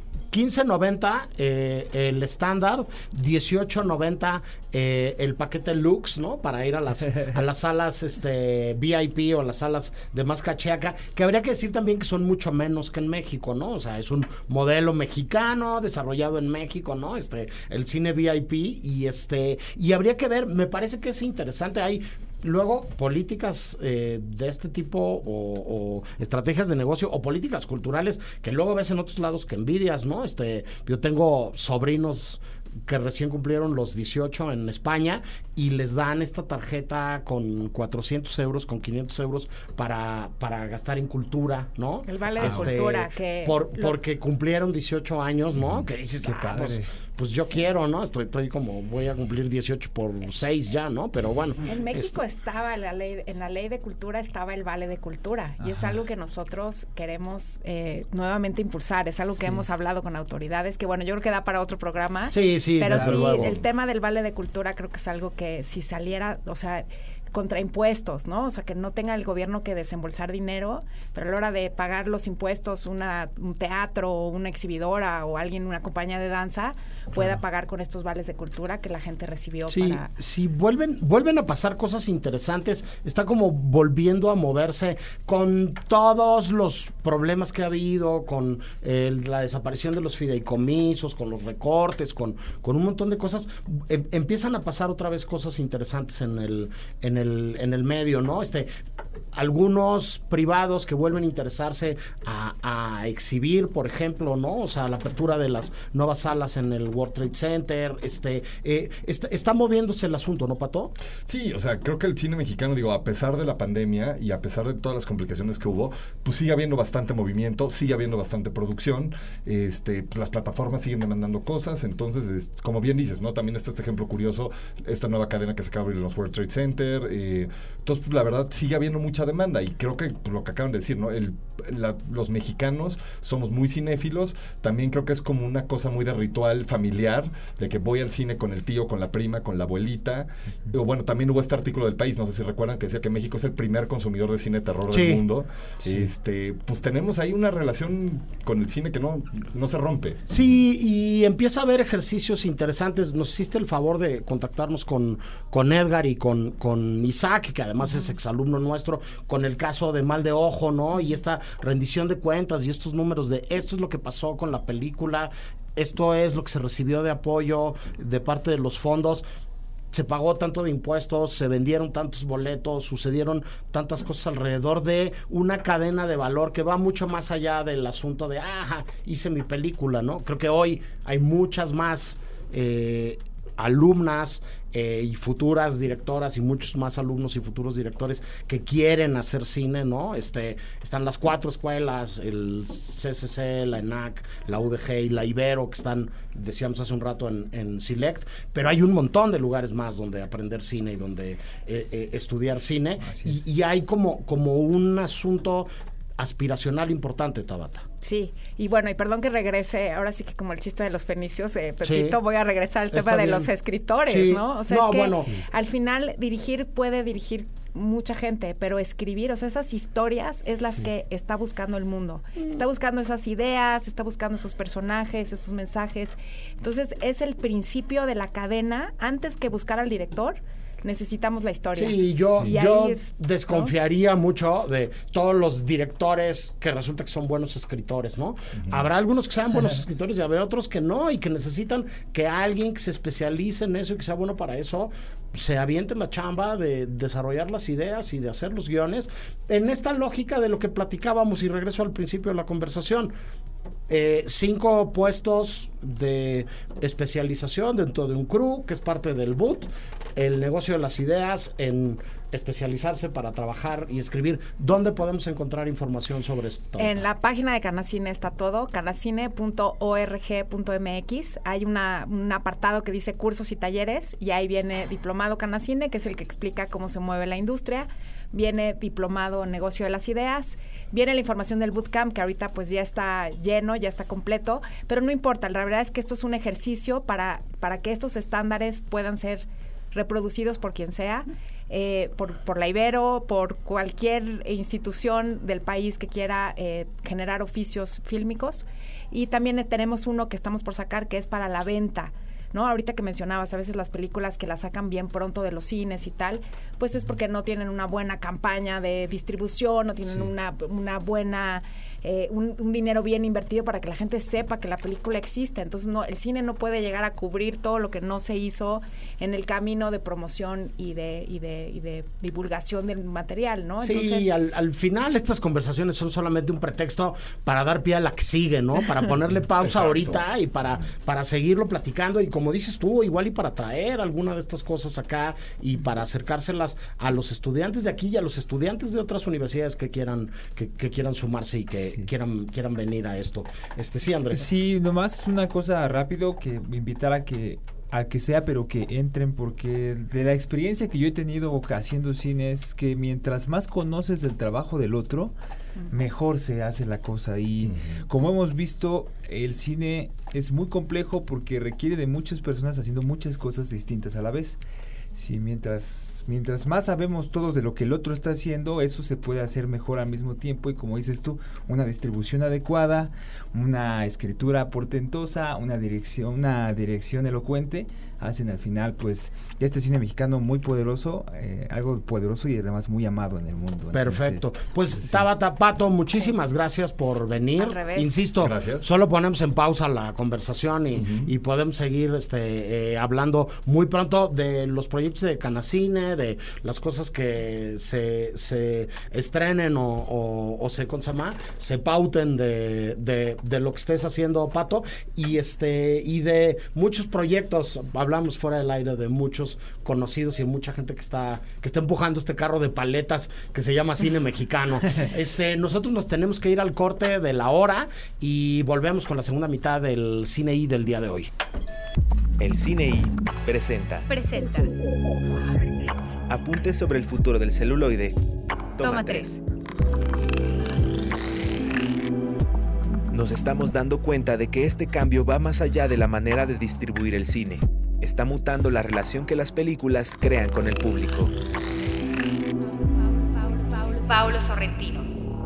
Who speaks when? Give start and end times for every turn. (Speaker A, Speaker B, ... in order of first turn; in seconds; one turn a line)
Speaker A: 0.3-52.2
Speaker B: 42.1-44.0
Speaker C: 42.4-42.7
Speaker C: 46.2-46.9
Speaker B: 51.7-80.1
Speaker C: 55.6-56.0
Speaker C: 59.3-59.6
Speaker A: 62.3-63.6
Speaker C: 62.9-63.5
Speaker A: 79.7-98.7
Speaker A: 99.3-111.0
Speaker D: 111.3-150.2
Speaker A: 144.9-145.2
Speaker A: 150.3-169.2
Speaker A: 169.9-207.8
Speaker C: 203.0-203.4
Speaker B: 208.0-233.7
Speaker A: 211.8-212.2
Speaker A: 212.9-213.5
Speaker A: 214.1-215.3
Speaker A: 231.8-253.1
Speaker A: 253.9-267.0
Speaker B: 266.8-324.3
Speaker C: 310.1-310.3
Speaker A: 323.8-344.5
Speaker D: 329.6-330.2
Speaker C: 344.3-355.3
Speaker C: 355.9-364.6
Speaker D: 357.6-358.0
Speaker C: 365.1-384.5
Speaker A: 383.9-421.3
Speaker B: 387.6-388.2
Speaker D: 388.4-388.9
Speaker D: 390.9-391.3
Speaker E: 422.4-424.1
Speaker F: 424.1-424.7
Speaker E: 426.3-428.2
Speaker E: 428.8-429.4
Speaker F: 428.8-429.4
Speaker E: 433.1-441.3
Speaker F: 443.3-445.1